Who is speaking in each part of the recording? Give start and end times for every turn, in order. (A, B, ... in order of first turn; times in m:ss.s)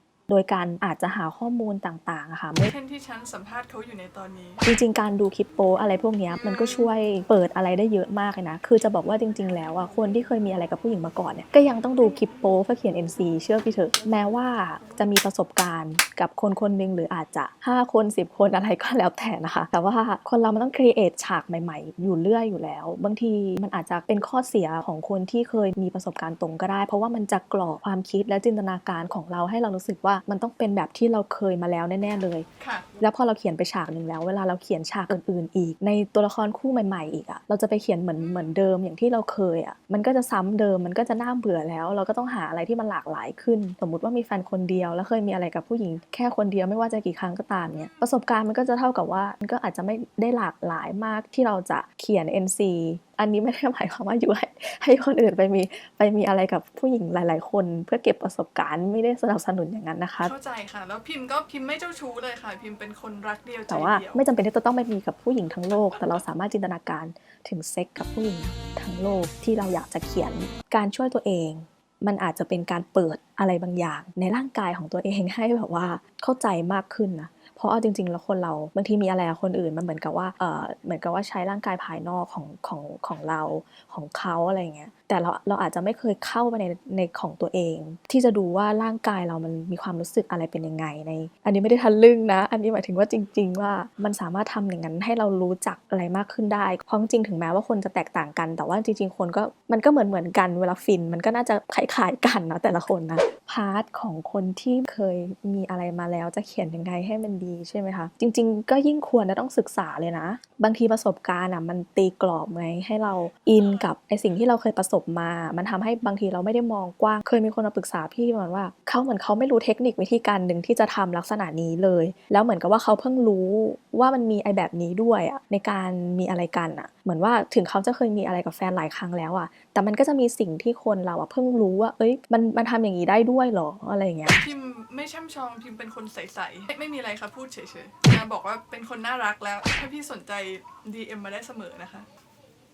0:00.3-0:02.7 A
0:02.6-0:04.6 B
0:04.6-0:32.4 A
0:06.4-0:06.9 B
0:32.6-0:32.8 B
0:33.0-1:00.3 A
0:47.7-0:48.1 B
1:00.2-1:04.2 B
1:03.7-2:14.4 A
2:14.4-2:22.0 B